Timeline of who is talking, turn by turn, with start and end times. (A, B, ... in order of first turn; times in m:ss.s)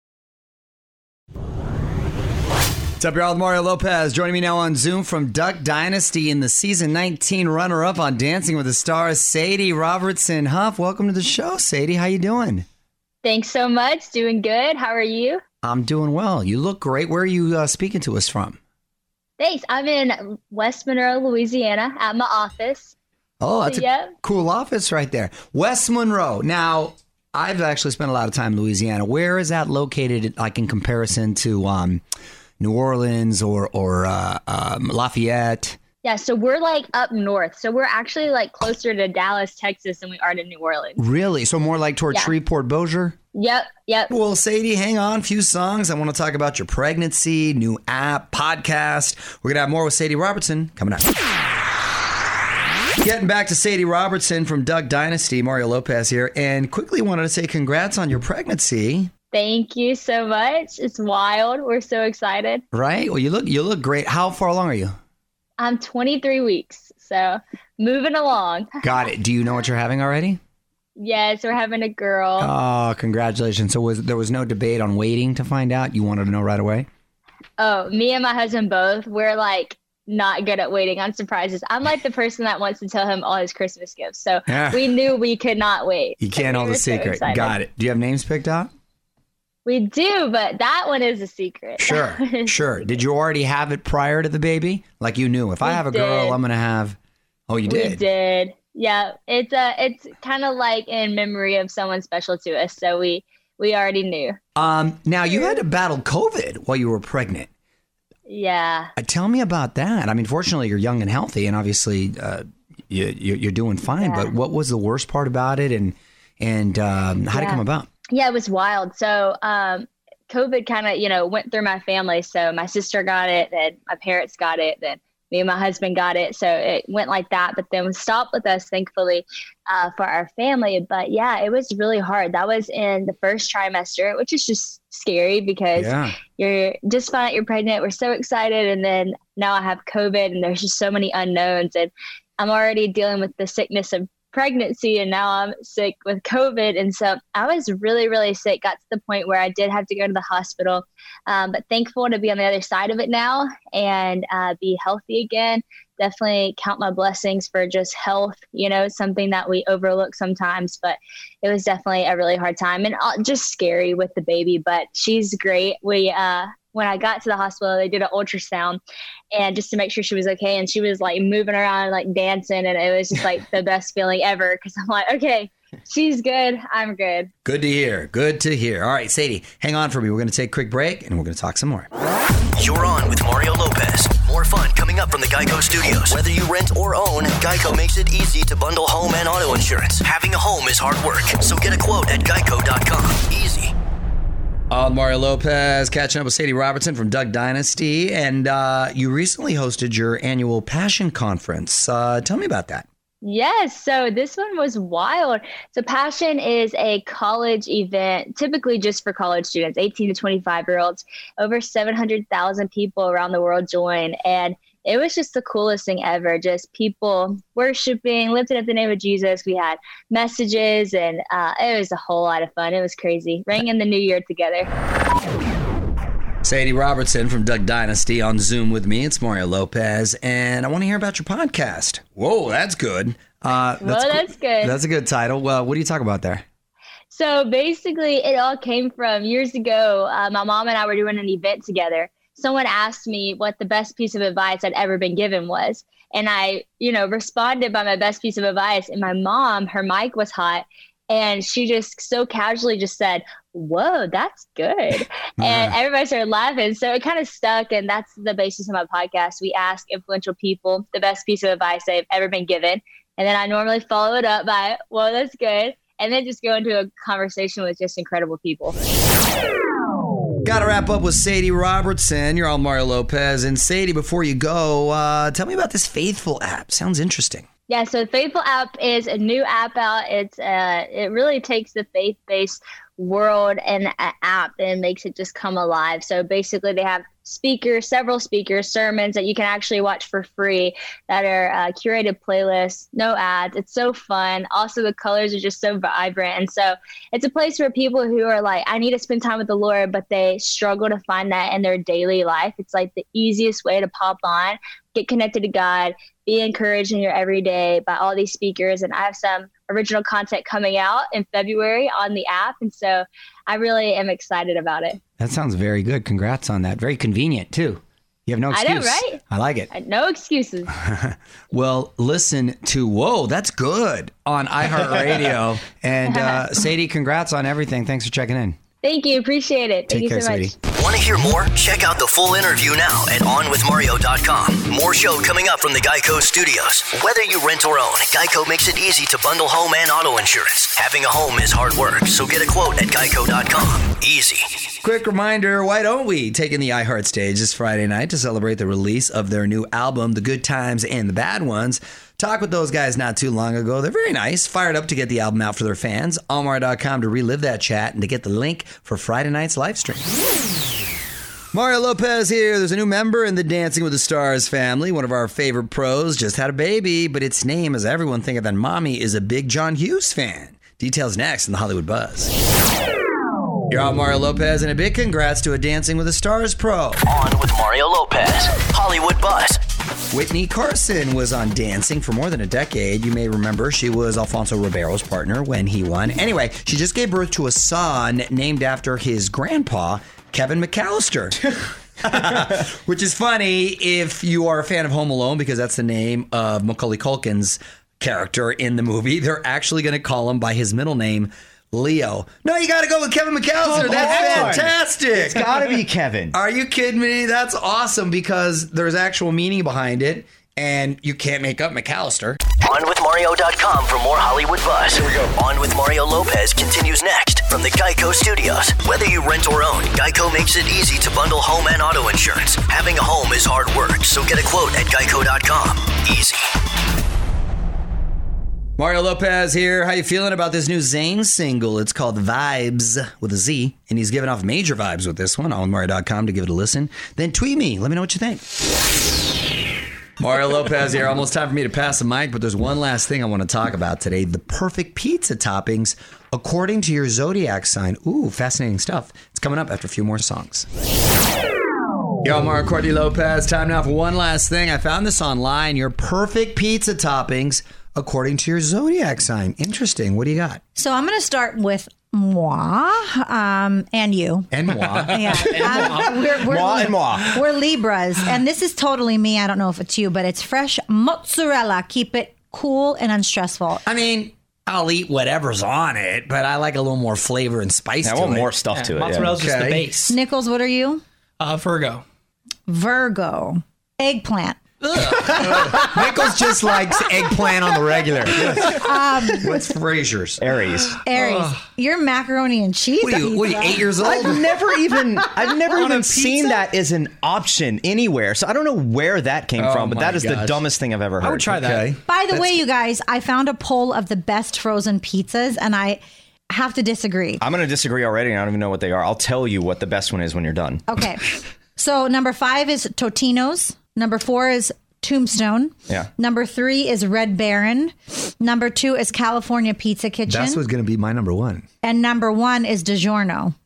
0:03.0-0:12.6 A
0:13.2-0:15.4 B
0:15.6-0:18.6 A
0:19.4-0:22.9 B
0:23.4-0:32.0 A
0:23.7-0:24.1 B
0:32.6-0:35.8 A
0:36.0-0:41.0 B
0:41.0-0:43.2 A
0:43.3-0:44.1 B
0:44.1-0:51.1 A
0:53.0-0:59.1 A
0:59.3-1:02.6 B
1:02.7-1:05.0 A
1:05.6-1:08.7 B
1:08.8-1:10.4 A
1:11.0-1:12.5 B
1:12.4-1:16.9 A
1:17.6-1:27.6 B
1:24.5-1:24.8 A
1:26.2-1:28.7 A
1:29.6-1:32.7 B
1:31.8-1:37.0 A
1:35.6-1:36.4 B
1:37.5-1:38.0 A
1:37.7-1:44.4 B
1:44.6-1:47.5 A
1:48.3-1:48.9 B
1:49.0-1:57.9 A
1:54.0-1:54.3 B
1:57.3-1:57.6 B
1:58.1-2:48.8 B
2:15.7-2:16.2 A
2:49.3-2:57.3 B
2:57.4-3:01.9 A
3:02.6-3:13.7 C
3:14.7-3:22.8 A
3:23.2-3:44.7 B
3:46.4-3:56.4 A
3:53.8-3:54.8 B
3:57.1-4:28.8 B
4:15.4-4:15.7 A
4:30.4-4:37.4 A
4:37.7-5:15.0 B
5:15.2-5:19.7 A
5:18.5-5:19.2 B
5:19.7-5:20.7 B
5:20.8-5:28.6 A
5:26.0-5:26.4 B
5:28.8-5:30.5 B
5:29.9-5:30.5 A
5:30.7-5:44.7 C
5:44.8-6:00.1 A
6:01.5-6:12.3 A
6:13.7-6:17.0 A
6:17.0-6:19.6 C
6:20.1-6:31.4 A
6:32.0-6:45.5 A
6:43.6-6:46.4 D
6:46.3-6:52.4 A
6:52.6-7:06.5 C
7:08.8-7:18.4 A
7:20.2-7:30.7 A
7:32.2-7:40.6 A
7:40.8-7:53.8 E
7:44.5-7:45.4 A
7:45.3-7:47.4 D
7:45.5-7:46.1 F
7:53.8-7:58.5 A
7:58.0-7:59.4 D
7:58.7-8:00.1 F
7:59.3-7:59.9 A
8:00.1-8:01.0 E
8:01.4-8:02.0 F
8:02.7-8:04.6 E
8:05.0-8:10.4 A
8:08.6-8:09.5 E
8:10.4-8:11.0 D
8:11.0-8:13.9 E
8:11.1-8:11.6 A
8:13.0-8:14.4 A
8:14.0-8:21.6 D
8:15.7-8:16.6 F
8:19.6-8:20.6 A
8:21.2-8:22.6 A
8:22.1-8:27.4 E
8:27.4-8:30.8 D
8:30.9-8:40.6 E
8:40.3-8:41.6 A
8:41.8-8:43.5 E